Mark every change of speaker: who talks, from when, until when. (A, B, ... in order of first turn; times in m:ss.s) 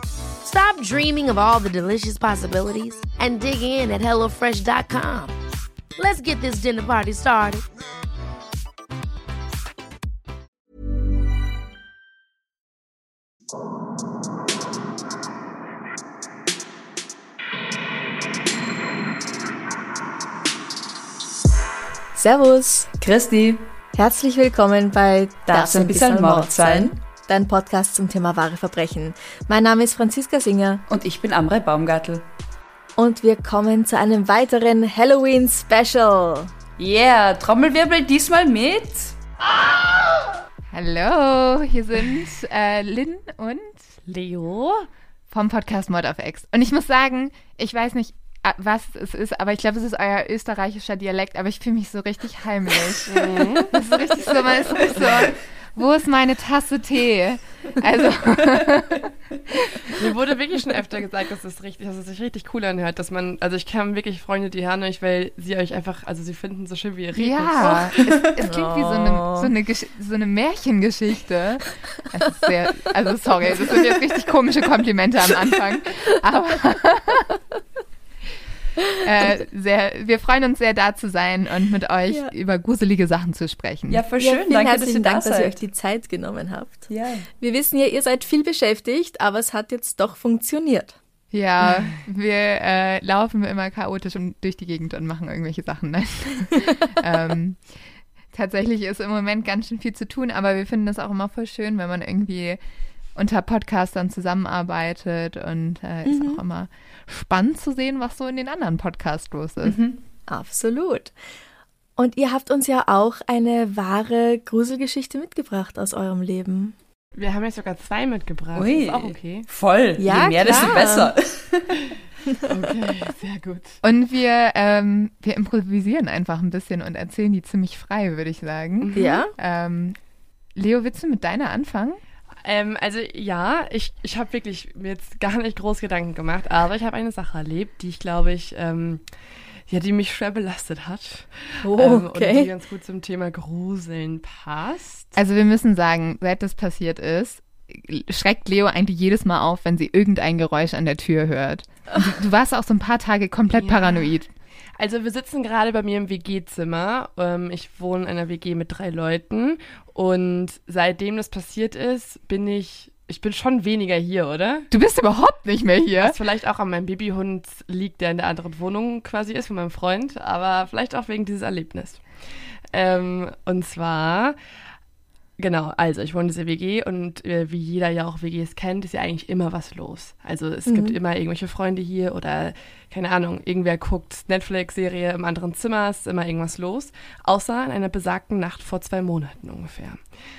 0:00.4-0:05.3 A
0:06.0-0:07.6 A
0:22.1-0:22.9 B
0:23.0-0:23.6 C
0:23.9-0:30.8 B
0:25.4-0:26.9 C
0:30.9-0:32.2 C
0:33.0-0:36.5 B
0:36.8-0:39.1 C
0:40.7-0:43.8 D
0:44.1-0:44.9 E
0:45.3-0:59.8 D
0:53.1-0:53.7 E
0:59.9-1:08.0 E
1:07.1-1:17.3 D
1:08.4-1:09.4 B
1:19.0-1:24.0 D
1:23.9-1:25.6 C
1:24.2-1:31.0 B
1:26.9-1:27.3 C
1:31.3-1:37.8 D
1:38.3-1:42.6 D
1:43.1-1:49.8 D
1:46.0-1:46.4 B
1:49.6-1:50.0 C
1:50.3-1:51.1 B
1:52.0-1:56.7 B
1:57.2-1:59.5 E
1:58.5-2:01.8 C
2:00.0-2:01.1 B
2:00.4-2:00.8 E
2:02.4-2:03.8 E
2:03.8-2:10.0 D
2:08.8-2:09.2 E
2:08.9-2:09.3 B
2:10.5-2:12.0 D
2:12.4-2:19.0 E
2:19.7-2:25.1 E
2:21.6-2:22.5 B
2:25.2-2:34.3 D
2:33.6-2:34.1 E
2:34.8-2:44.7 E
2:44.7-2:46.2 D
2:46.0-2:52.0 E
2:52.7-2:54.4 E
2:55.4-3:10.0 E
3:00.7-3:01.0 B